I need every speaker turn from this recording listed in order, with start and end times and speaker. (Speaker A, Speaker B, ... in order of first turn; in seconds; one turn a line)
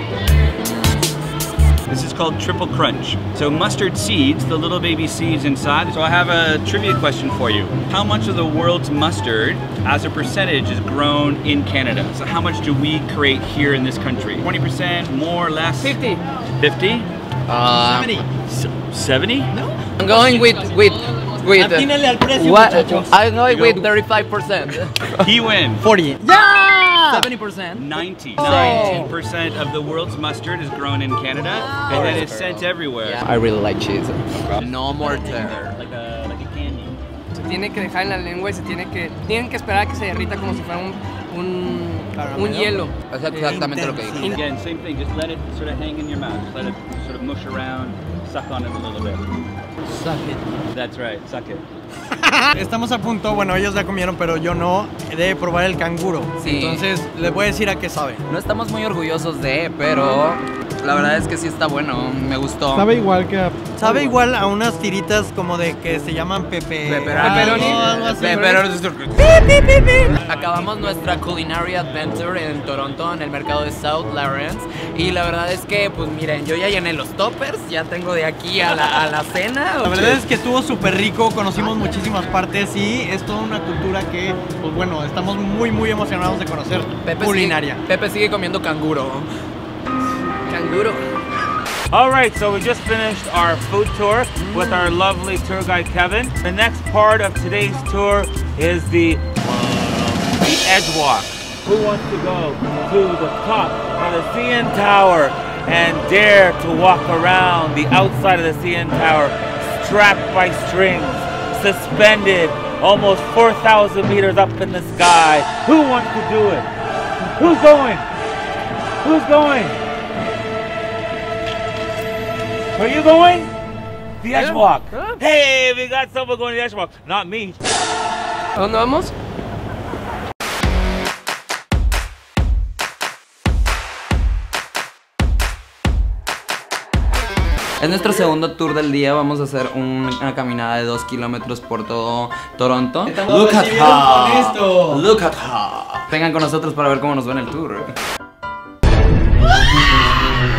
Speaker A: 1.9-16.0
Speaker B: 15.8-16.2
Speaker A: 16.6-17.1
Speaker C: 17.5-18.1
Speaker D: 17.7-18.5
Speaker A: 18.7-19.5
Speaker D: 19.5-19.8
Speaker C: 20.0-25.0
Speaker D: 21.4-23.2
Speaker A: 23.5-23.8
Speaker A: 25.2-25.8
Speaker D: 25.8-27.3
Speaker C: 27.1-29.0
Speaker A: 27.7-33.2
Speaker D: 28.4-29.1
Speaker B: 28.5-29.0
Speaker C: 31.6-35.8
Speaker D: 31.9-32.4
Speaker A: 34.4-37.0
Speaker B: 37.4-42.9
Speaker D: 42.1-42.8
Speaker C: 43.1-44.2
Speaker D: 43.3-44.4
Speaker A: 44.2-49.3
Speaker D: 49.9-50.6
Speaker A: 50.7-51.6
Speaker D: 52.1-58.2
Speaker C: 56.4-56.8
Speaker C: 58.3-62.9
Speaker D: 62.7-68.6
Speaker C: 66.8-80.2
Speaker B: 67.2-68.6
Speaker E: 70.1-71.1
Speaker D: 79.8-87.8
Speaker C: 87.0-89.3
Speaker B: 90.5-91.1
Speaker E: 91.9-116.7
Speaker E: 117.4-118.1
Speaker E: 119.0-119.8
Speaker E: 122.7-123.5
Speaker E: 124.2-127.6
Speaker B: 124.3-125.2
Speaker B: 128.5-129.1
Speaker C: 137.8-147.9
Speaker D: 143.1-145.1